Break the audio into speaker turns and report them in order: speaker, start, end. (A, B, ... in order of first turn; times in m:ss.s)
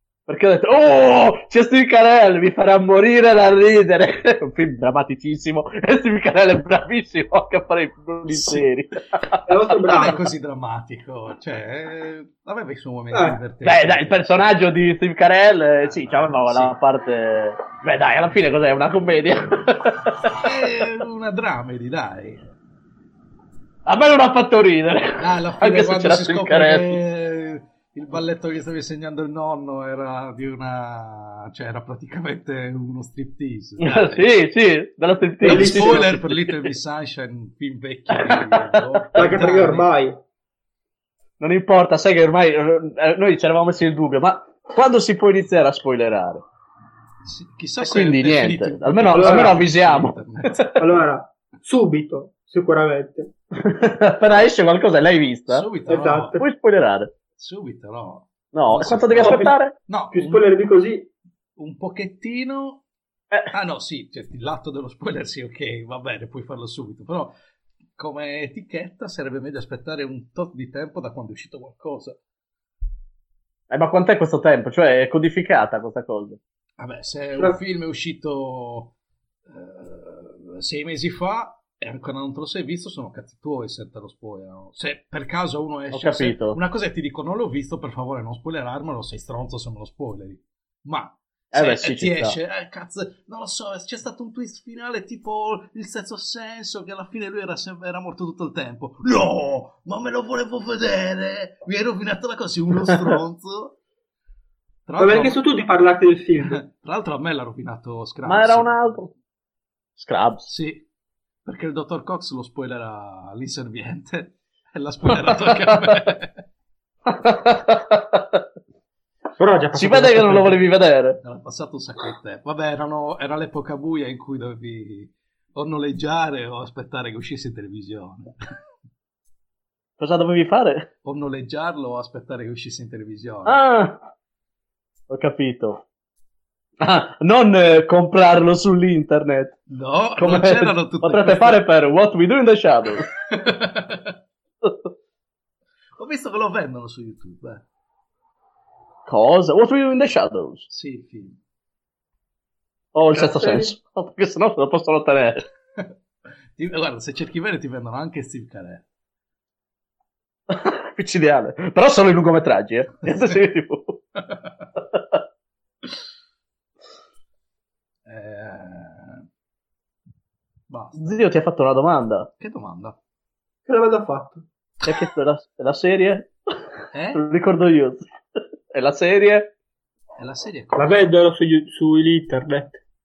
0:00.3-0:09.4 A
0:08.3-0:08.6 B
0:09.5-0:10.2 C
0:09.8-0:14.6 B
0:13.1-0:13.4 C
0:13.6-0:20.4 A
0:15.8-0:16.7 B
0:20.3-0:22.4 B
0:23.8-0:27.0 A
0:25.2-0:34.3 B
0:33.8-0:36.6 A
0:35.4-0:36.1 C
0:35.4-0:39.9 B
0:38.1-0:39.1 A
0:39.1-0:40.2 C
0:41.4-0:46.4 A
0:47.2-0:50.7 B
0:47.8-0:50.8 A
0:49.1-0:49.6 C
0:50.8-0:53.3 C
0:53.5-0:55.7 A
0:55.5-0:56.4 B
0:55.9-0:56.4 C
0:56.4-0:57.1 A
0:57.4-1:00.4 B
0:58.5-0:59.7 A
0:59.2-0:59.6 C
1:00.1-1:01.1 C
1:01.6-1:02.8 B
1:03.5-1:07.3 B
1:08.0-1:12.2 B
1:13.7-1:16.4 A
1:16.8-1:18.9 B
1:19.4-1:43.8 B
1:25.9-1:26.6 A
1:31.5-1:32.4 A
1:44.8-1:45.4 B
1:45.0-1:46.6 C
1:46.4-1:48.7 B
1:48.2-1:49.1 A
1:50.0-1:50.5 A
1:50.5-1:50.8 B
1:51.4-1:56.4 B
1:55.3-1:55.7 A
1:57.1-1:58.4 A
1:59.4-2:00.6 C
1:59.7-2:01.2 A
2:01.2-2:08.3 B
2:10.0-2:10.9 A
2:11.0-2:13.6 B
2:13.4-2:14.1 A
2:15.1-2:15.8 A
2:16.8-2:19.6 A
2:19.7-2:21.6 B
2:20.2-2:23.1 A
2:23.1-2:24.2 B
2:26.0-2:27.6 B
2:29.0-2:30.7 A
2:30.7-2:31.4 B
2:32.9-2:35.4 A
2:33.1-2:33.7 C
2:36.5-2:38.8 B
2:40.5-2:44.0 A
2:44.2-2:44.5 B
2:44.9-2:45.2 A
2:48.0-2:49.2 B
2:50.7-2:51.2 B
2:50.9-2:52.3 A
2:52.4-2:53.0 B
2:53.7-2:54.4 C
2:54.8-2:56.3 A
2:56.9-2:57.2 B
2:57.1-2:58.1 A
2:58.7-2:59.5 A
3:00.2-3:01.1 B
3:00.7-3:02.8 C